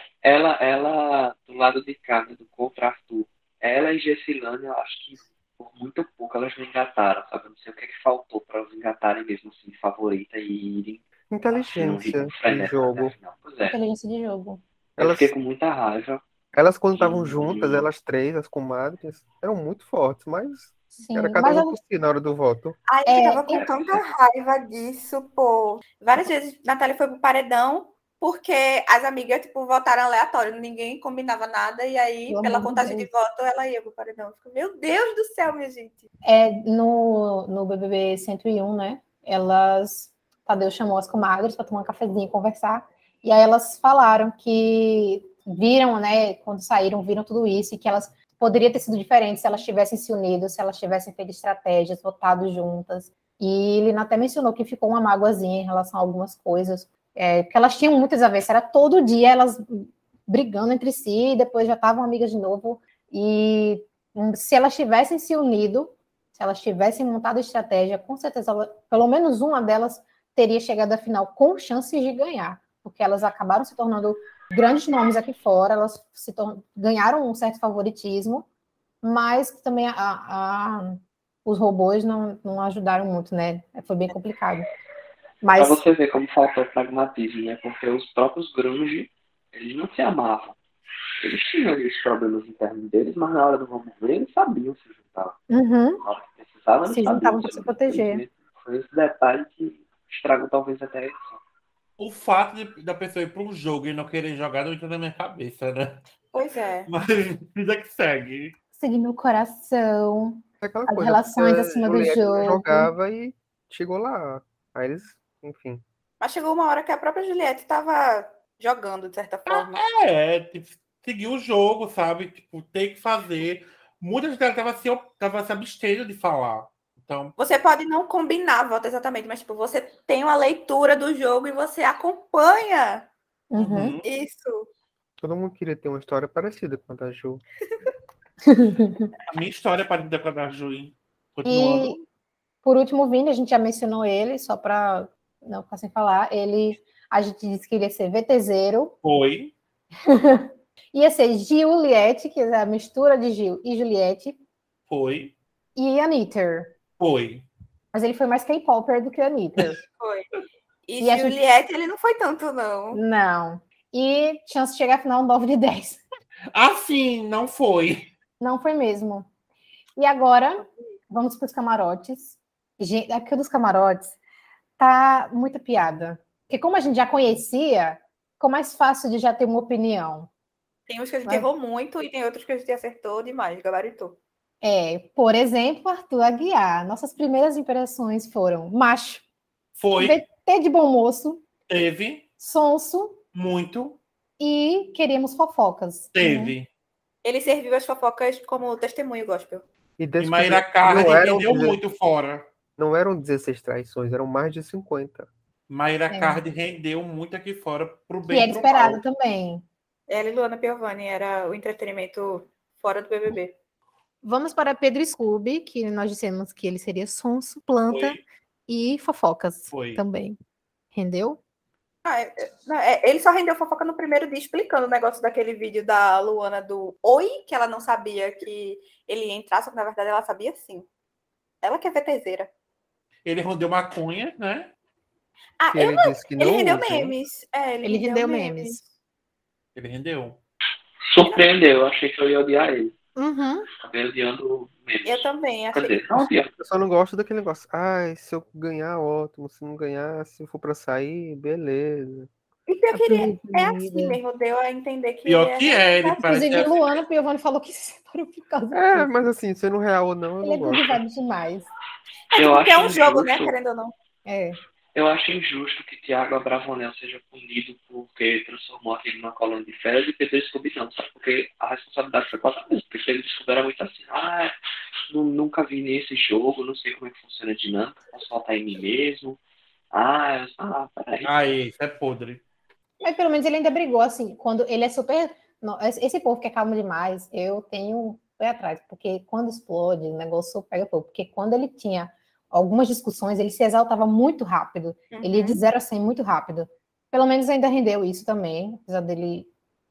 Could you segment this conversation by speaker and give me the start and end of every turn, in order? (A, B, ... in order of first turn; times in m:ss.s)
0:00.2-0:13.8 A
0:11.3-0:13.1 B
0:13.7-0:14.6 C
0:15.0-0:15.3 B
0:15.0-0:16.2 A
0:16.5-0:22.8 B
0:17.0-0:17.9 A
0:21.0-0:21.8 C
0:22.9-0:36.1 D
0:23.1-0:23.6 C
0:32.3-0:33.1 C
0:36.2-1:18.5 C
1:19.0-1:24.7 C
1:25.4-1:25.8 C
1:25.6-1:30.6 A
1:31.2-1:35.5 A
1:35.5-1:36.0 C
1:36.0-1:41.4 A
1:36.9-1:38.2 C
1:42.0-1:46.0 E
1:46.3-1:46.9 D
1:46.9-1:48.5 E
1:48.8-1:52.9 C
1:50.6-1:55.8 B
1:56.2-1:59.8 D
1:59.5-2:07.3 E
2:07.4-2:13.1 D
2:13.5-2:14.0 C
2:13.6-2:14.1 E
2:14.0-2:14.7 D
2:15.2-2:17.4 B
2:18.5-2:19.1 C
2:19.3-2:22.0 E
2:21.5-2:22.0 C
2:22.6-2:29.0 C
2:29.0-2:29.5 E
2:30.1-2:34.4 C
2:34.9-2:35.3 E
2:35.8-2:36.7 C
2:37.0-2:37.5 E
2:37.9-2:39.8 C
2:40.0-2:40.3 D
2:40.9-2:43.0 D
2:41.0-2:41.4 C
2:42.9-2:46.0 C
2:46.5-2:48.1 E
2:48.4-2:49.3 C
2:50.0-2:54.1 C
2:54.8-3:00.3 C
3:00.9-3:04.2 D
3:04.6-3:09.2 C
3:09.8-3:10.2 E
3:10.0-3:11.4 C
3:11.7-3:12.3 E
3:12.4-3:13.2 C
3:13.3-3:14.0 E
3:14.4-3:16.6 C
3:16.2-3:16.7 E
3:17.2-3:19.6 D
3:20.0-3:21.8 B
3:20.2-3:22.5 E
3:22.8-3:25.3 B
3:25.7-3:29.0 E
3:26.1-3:26.4 C
3:28.3-3:29.6 C
3:30.1-3:33.5 D
3:34.2-3:40.4 C
3:37.9-3:38.2 E
3:39.7-3:40.0 E
3:40.9-3:41.4 C
3:42.0-3:50.9 D
3:51.6-3:52.5 D
3:53.2-3:54.7 E
3:55.6-3:58.8 D
3:55.7-3:57.2 B
3:57.8-3:58.8 C
3:59.8-4:00.4 E
4:01.1-4:03.0 A
4:03.2-4:03.7 C
4:03.8-4:06.5 A
4:05.0-4:06.0 D
4:06.6-4:12.3 B
4:12.7-4:16.3 D
4:12.9-4:14.2 C
4:15.3-4:16.8 E
4:16.2-4:19.3 C
4:18.7-4:21.0 B
4:20.4-4:21.7 C
4:22.3-4:23.9 D
4:22.4-4:23.5 A
4:24.3-4:24.6 C
4:25.0-4:34.6 A
4:35.1-4:39.4 A
4:39.9-4:41.4 A
4:41.2-4:42.4 E
4:43.0-4:59.5 C
4:55.1-4:55.6 D